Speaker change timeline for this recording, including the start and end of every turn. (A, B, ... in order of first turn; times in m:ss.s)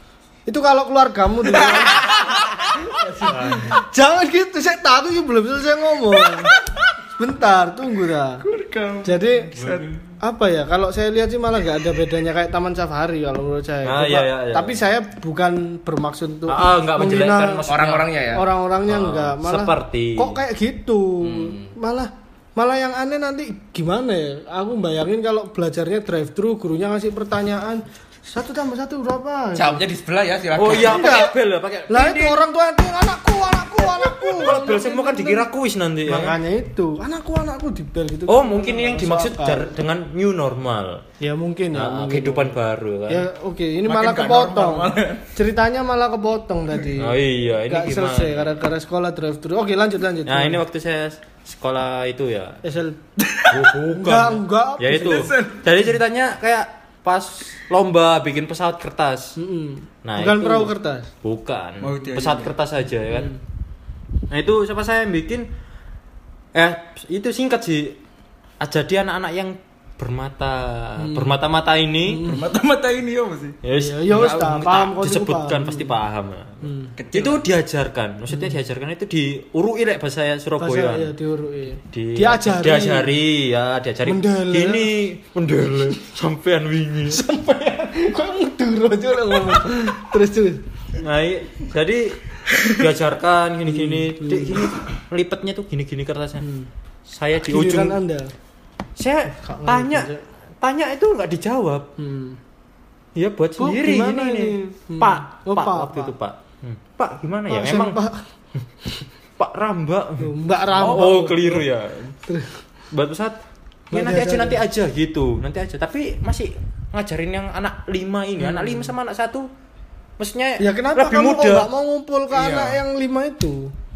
0:00.5-0:08.4 A
0:02.0-0:02.3 B
0:03.3-0:03.7 C
0:08.4-0:10.0 D
0:09.0-0:17.6 A
0:13.8-0:14.8 C
0:16.5-0:18.1 C
0:17.7-0:18.4 B
0:18.3-0:29.8 A
0:18.9-0:20.4 C
0:21.2-0:21.7 B
0:29.5-0:31.3 B
0:30.5-0:32.4 C
0:30.7-0:31.3 A
0:31.9-0:35.5 A
0:33.8-0:36.4 C
0:36.0-0:39.7 A
0:38.3-0:41.0 C
0:41.2-0:42.6 A
0:41.7-0:43.3 C
0:43.1-0:50.6 A
0:43.8-0:45.2 D
0:46.9-0:48.4 C
0:50.2-0:52.6 C
0:52.6-0:55.3 A
0:53.2-0:53.6 D
0:53.5-0:59.4 C
0:54.9-0:55.7 D
0:59.4-1:01.1 A
1:00.0-1:00.7 C
1:01.2-1:03.4 C
1:01.8-1:02.5 D
1:04.3-1:05.5 C
1:06.5-1:08.0 C
1:08.6-1:12.3 C
1:11.0-1:11.3 A
1:12.0-1:12.4 A
1:12.2-1:13.6 D
1:13.6-1:21.1 C
1:13.7-1:15.9 A
1:16.6-1:16.9 A
1:17.0-1:17.4 D
1:20.6-1:23.1 A
1:21.9-1:27.2 C
1:24.0-1:24.9 A
1:27.1-1:30.6 A
1:31.0-1:36.4 C
1:33.7-1:34.7 A
1:36.4-1:36.7 A
1:37.1-1:38.0 C
1:37.4-1:38.3 A
1:39.0-1:41.9 C
1:39.3-1:40.2 A
1:42.0-1:42.4 A
1:43.1-1:48.0 C
1:43.6-1:46.1 A
1:47.5-1:48.2 A
1:49.4-1:52.1 C
1:50.2-1:51.6 A
1:52.2-1:52.6 A
1:52.9-1:53.4 C
1:53.9-1:54.6 A
1:53.9-1:59.5 C
1:58.4-1:58.9 A
2:00.2-2:01.7 C
2:00.6-2:03.7 A
2:02.3-2:02.8 D